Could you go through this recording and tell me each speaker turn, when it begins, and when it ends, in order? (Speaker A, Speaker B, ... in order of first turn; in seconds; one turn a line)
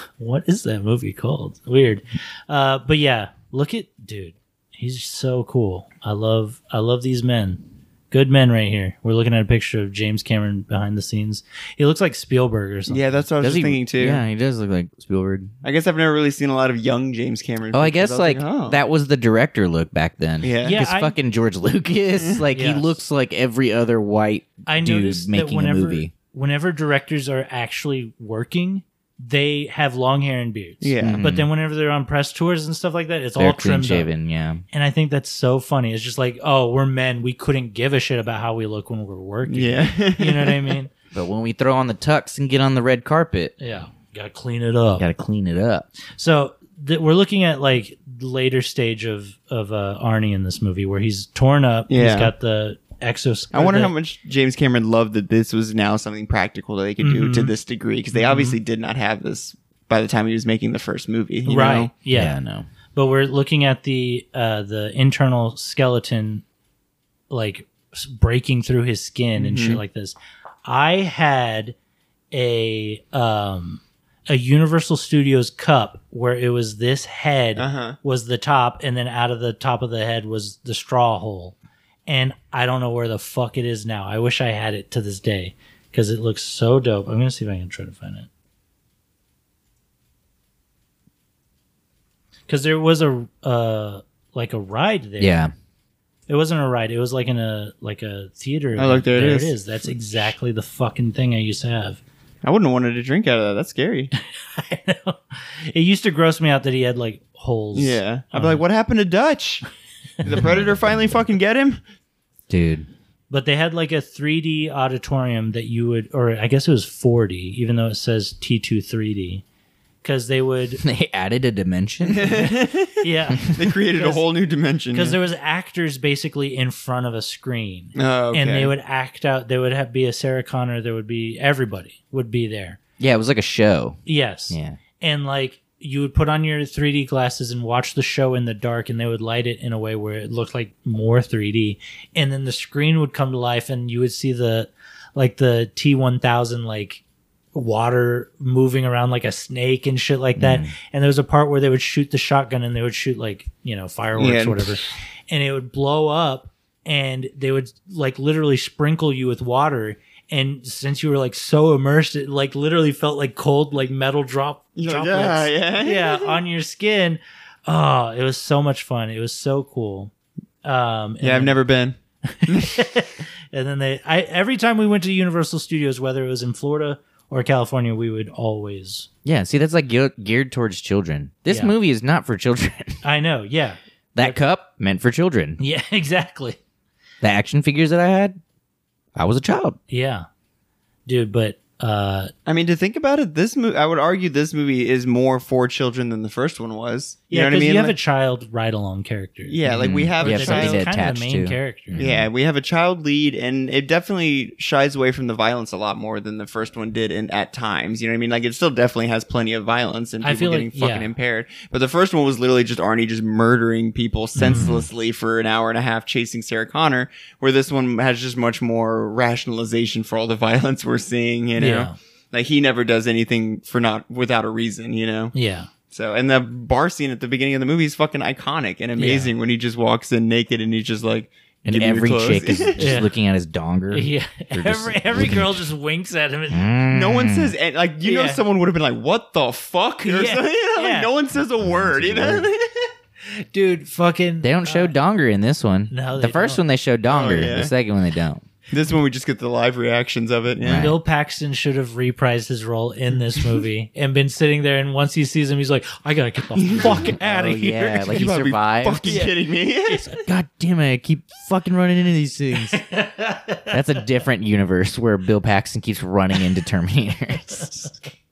Speaker A: 0.2-13.2
Speaker B: 12.9-14.2
Speaker C: 13.4-15.5
Speaker B: 15.6-18.8
Speaker C: 17.7-26.1
Speaker B: 20.4-20.8
Speaker A: 20.6-21.1
Speaker A: 22.5-22.9
Speaker A: 24.7-34.1
Speaker B: 30.8-31.2
Speaker C: 31.0-31.5
Speaker C: 33.4-34.6
Speaker A: 34.7-40.9
Speaker B: 39.5-40.7
Speaker C: 41.1-43.5
Speaker A: 43.6-45.1
Speaker C: 45.0-45.9
Speaker A: 46.1-53.9
Speaker B: 51.9-52.3
Speaker B: 53.5-61.9
Speaker A: 57.0-57.5
Speaker A: 58.1-58.6
Speaker A: 61.4-62.4
Speaker C: 62.1-62.7
Speaker A: 62.9-66.4
Speaker A: 67.3-71.7
Speaker B: 69.4-69.8
Speaker A: 72.3-81.5
Speaker B: 77.5-78.0
Speaker A: 82.1-88.3
Speaker A: 92.5-95.4
Speaker C: 95.2-95.5
Speaker A: 96.3-102.0
Speaker B: 98.8-99.6
Speaker B: 102.4-104.1
Speaker A: 104.4-108.6
Speaker B: 107.7-109.6
Speaker B: 110.2-111.8
Speaker C: 112.5-112.9
Speaker A: 113.3-119.4
Speaker A: 120.0-120.8
Speaker C: 120.8-122.4
Speaker B: 122.1-125.2
Speaker A: 123.0-124.2
Speaker C: 123.3-123.5
Speaker A: 124.9-132.8
Speaker B: 128.0-128.7
Speaker C: 133.0-134.8
Speaker A: 134.1-147.0
Speaker A: 147.5-170.1
Speaker C: 150.4-150.7
Speaker B: 154.2-154.8
Speaker B: 164.8-166.3
Speaker A: 170.6-171.6
Speaker B: 171.2-172.8
Speaker A: 172.3-179.1
Speaker C: 179.2-183.0
Speaker A: 181.5-181.7
Speaker A: 183.0-184.4
Speaker C: 184.2-185.6
Speaker A: 185.6-186.6
Speaker C: 187.2-188.4
Speaker C: 189.2-189.8
Speaker A: 189.9-190.2
Speaker A: 191.1-192.3
Speaker B: 192.4-197.9
Speaker A: 197.3-202.0
Speaker B: 199.5-200.9
Speaker C: 199.7-202.3
Speaker B: 201.9-225.3
Speaker A: 210.2-211.1
Speaker A: 214.3-214.8
Speaker A: 221.6-222.0
Speaker A: 225.3-225.7
Speaker B: 225.9-233.0
Speaker A: 228.9-229.3
Speaker C: 231.6-235.7
Speaker A: 232.8-233.1
Speaker A: 233.9-236.7
Speaker C: 236.5-237.5
Speaker B: 236.9-242.9
Speaker A: 238.0-238.4
Speaker A: 240.0-241.1
Speaker C: 241.6-242.5
Speaker A: 243.5-244.9
Speaker C: 244.4-248.4
Speaker A: 245.9-246.6
Speaker B: 247.1-247.7
Speaker B: 248.7-250.9
Speaker C: 250.6-251.0
Speaker A: 250.7-258.3
Speaker B: 256.6-257.1
Speaker C: 257.2-259.2
Speaker B: 258.1-260.1
Speaker A: 259.0-259.3
Speaker A: 259.9-260.2
Speaker C: 260.2-262.8
Speaker A: 262.7-263.8
Speaker C: 263.7-267.9